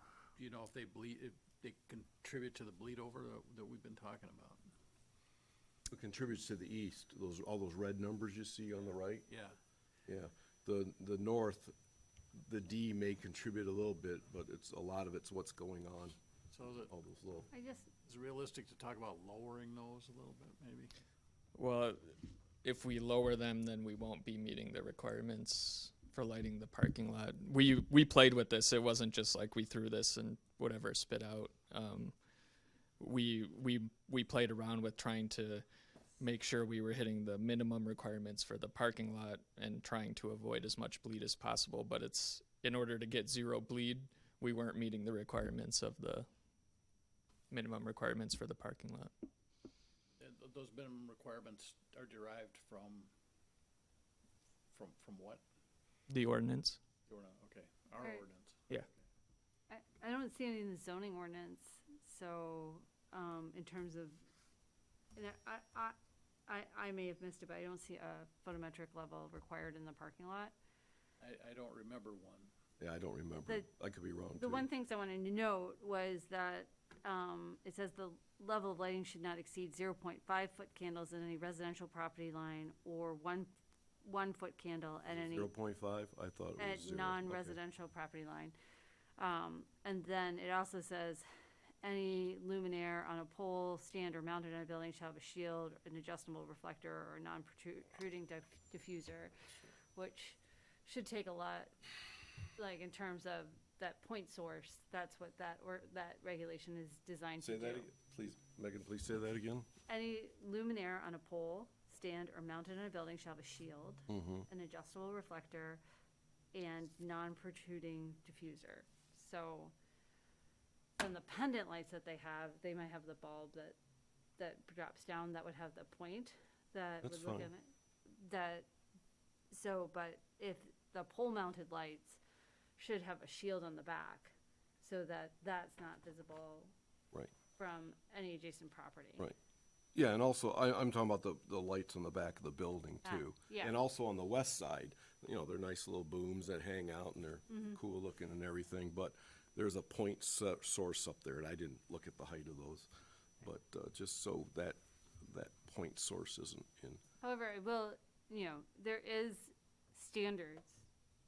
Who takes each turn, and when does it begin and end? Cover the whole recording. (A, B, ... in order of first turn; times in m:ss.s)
0:00.3-0:04.6 A
0:05.9-0:09.3 B
0:09.3-0:09.6 A
0:10.0-0:11.7 B
0:12.4-0:16.2 B
0:16.5-0:16.9 A
0:16.9-0:17.5 B
0:17.5-0:17.9 C
0:18.0-0:20.9 A
0:21.5-0:32.1 D
0:33.0-0:35.6 D
0:36.2-0:46.3 D
0:47.5-0:49.1 D
0:50.2-0:53.1 A
0:54.7-0:55.4 A
0:56.1-0:56.8 D
0:57.1-0:58.9 A
0:58.0-0:58.2 C
0:59.7-1:04.2 C
1:05.1-1:05.9 C
1:06.5-1:10.5 C
1:11.2-1:12.5 A
1:12.8-1:14.6 B
1:14.4-1:25.5 C
1:25.1-1:27.6 B
1:26.6-1:28.5 C
1:29.2-1:31.3 C
1:31.8-1:39.3 C
1:39.9-1:41.7 C
1:42.6-1:47.9 C
1:47.4-1:49.7 B
1:49.9-1:55.8 C
1:54.1-1:54.5 B
1:56.5-1:59.7 C
2:01.0-2:03.8 C
2:04.4-2:08.6 C
2:07.0-2:07.5 B
2:09.5-2:12.2 C
2:12.8-2:16.7 C
2:17.6-2:19.2 C
2:19.9-2:32.9 B
2:23.0-2:23.7 C
2:27.5-2:27.8 C
2:33.4-2:37.0 B
2:37.2-2:40.8 C